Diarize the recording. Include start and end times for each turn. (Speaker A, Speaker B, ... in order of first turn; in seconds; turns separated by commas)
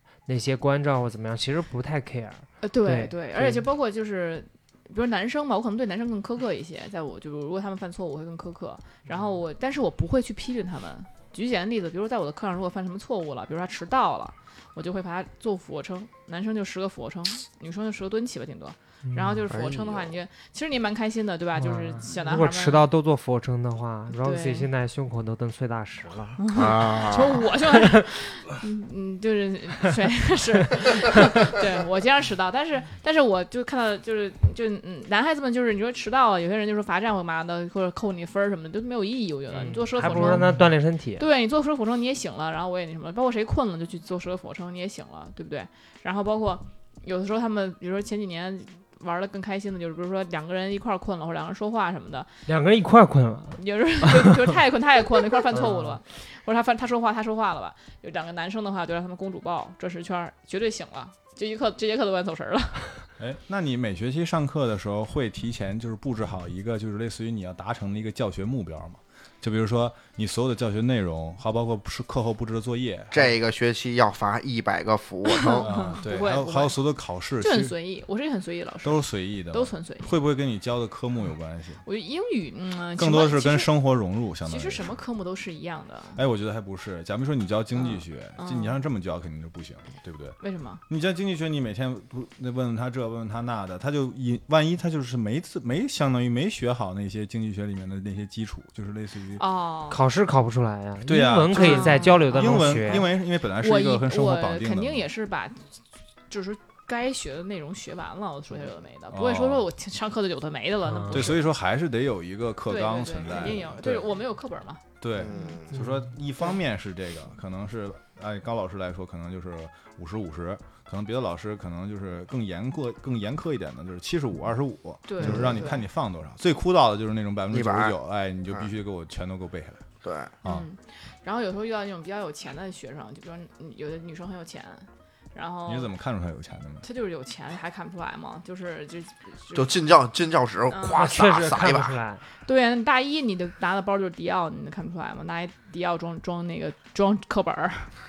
Speaker A: 0.3-3.6, Speaker B: 2.6-22.9, Speaker A: 19.1-19.4, Speaker C: 19.5-20.1, Speaker A: 21.6-26.4, Speaker B: 24.1-24.7, Speaker B: 26.4-40.6, Speaker C: 26.5-27.5, Speaker A: 39.5-41.2, Speaker B: 41.2-52.3, Speaker A: 52.5-54.5, Speaker B: 53.6-62.9, Speaker A: 55.5-56.0, Speaker D: 63.2-73.3, Speaker C: 73.1-75.8, Speaker B: 75.4-76.8, Speaker D: 75.6-77.8, Speaker B: 77.4-80.1, Speaker D: 78.8-81.8, Speaker B: 81.8-83.7, Speaker D: 83.0-84.9, Speaker B: 84.5-86.2, Speaker D: 86.2-99.5, Speaker B: 87.8-88.8, Speaker B: 90.4-90.8, Speaker B: 99.4-100.0, Speaker A: 99.9-103.1, Speaker D: 101.0-105.0, Speaker B: 101.5-111.4, Speaker D: 109.1-109.7, Speaker A: 110.9-111.3, Speaker D: 111.1-114.1, Speaker B: 112.7-114.8, Speaker D: 115.0-129.8, Speaker C: 115.2-115.7, Speaker B: 115.3-115.6, Speaker A: 115.7-116.0, Speaker B: 125.1-125.8, Speaker C: 125.2-125.7, Speaker C: 127.5-128.0, Speaker C: 130.0-130.3, Speaker B: 130.4-135.9, Speaker D: 135.7-136.8, Speaker B: 136.8-139.8, Speaker C: 139.6-142.0, Speaker B: 140.7-141.1, Speaker A: 140.9-142.2, Speaker B: 142.5-147.9